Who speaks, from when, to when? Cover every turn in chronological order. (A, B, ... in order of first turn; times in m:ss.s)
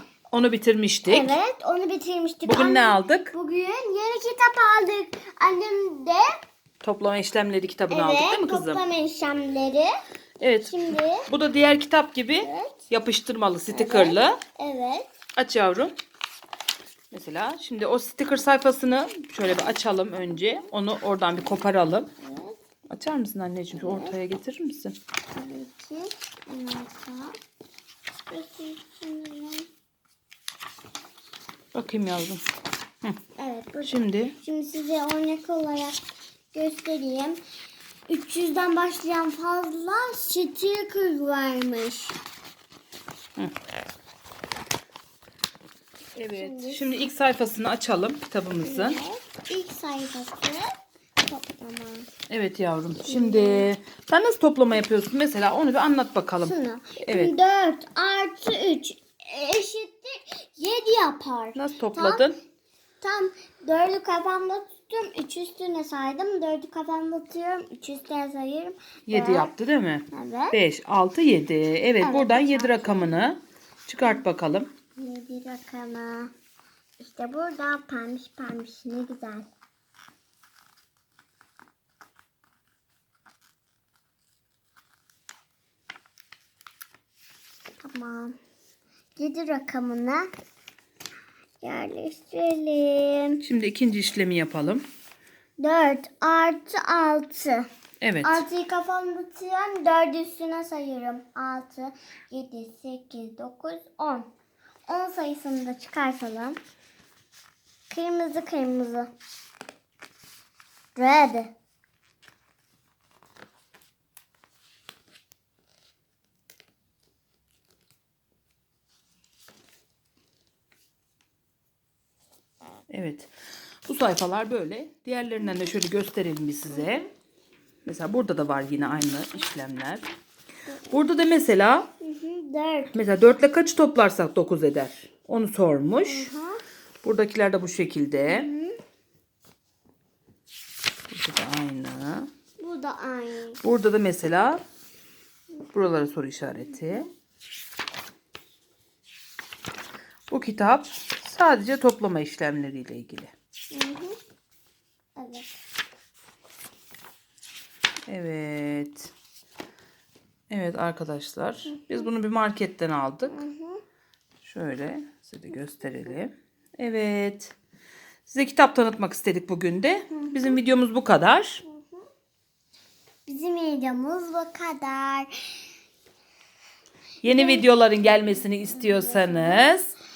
0:00.3-0:01.4 A
0:01.1-0:06.2 B
0:02.4-0:03.3 A
0:06.8-0:08.8 A
0:07.9-0:09.9 B
0:10.4-0:14.4 A
0:10.6-0:11.3 B
0:12.4-0:12.9 B
0:13.7-0:15.1 B
0:15.4-0:15.9 A
0:17.1-0:22.1 A
0:22.2-0:22.6 B
0:22.9-0:25.0 A
0:23.8-0:24.2 B
0:25.3-0:27.4 B
0:28.3-0:29.7 B
0:31.7-0:32.4 A
0:33.4-0:36.0 B
0:33.8-0:34.4 A
0:36.5-0:37.4 B
0:38.1-0:42.2 B
0:46.2-0:49.0 A
0:46.3-0:46.9 B
0:48.6-0:50.7 B
0:51.2-0:52.1 B
0:52.3-0:57.3 A
0:53.0-0:53.7 B
0:56.4-1:02.3 B
1:01.6-1:02.3 A
1:03.0-1:09.5 B
1:09.1-1:14.7 A
1:10.1-1:10.6 B
1:12.0-1:13.2 B
1:15.0-1:16.3 B
1:17.0-1:19.5 B
1:27.8-1:28.4 B
1:29.2-1:30.3 B
1:31.6-1:33.4 B
1:33.4-1:34.8 A
1:35.6-1:37.7 B
1:38.0-1:38.5 A
1:38.2-1:44.3 B
1:44.9-1:46.6 B
1:47.9-1:49.1 B
1:51.0-1:51.5 B
2:02.9-2:03.3 A
2:03.8-2:07.1 A
2:07.8-2:10.0 A
2:10.9-2:11.9 A
2:12.0-2:13.0 B
2:12.9-2:16.3 A
2:16.0-2:16.6 B
2:17.0-2:18.5 A
2:18.3-2:18.8 B
2:21.1-2:22.3 A
2:22.6-2:23.6 B
2:23.6-2:24.6 A
2:25.7-2:27.1 A
2:26.5-2:27.0 B
2:30.3-2:33.3 A
2:33.7-2:34.2 B
2:35.2-2:35.6 B
2:38.1-2:39.1 A
2:40.5-2:43.4 A
2:41.7-2:42.1 B
2:43.3-2:43.8 B
2:44.4-2:47.5 A
2:48.3-2:51.6 A
2:50.1-2:50.6 B
2:51.7-2:52.0 B
2:53.3-2:55.7 B
2:57.2-2:59.9 A
2:57.3-2:57.7 B
2:58.7-2:59.8 B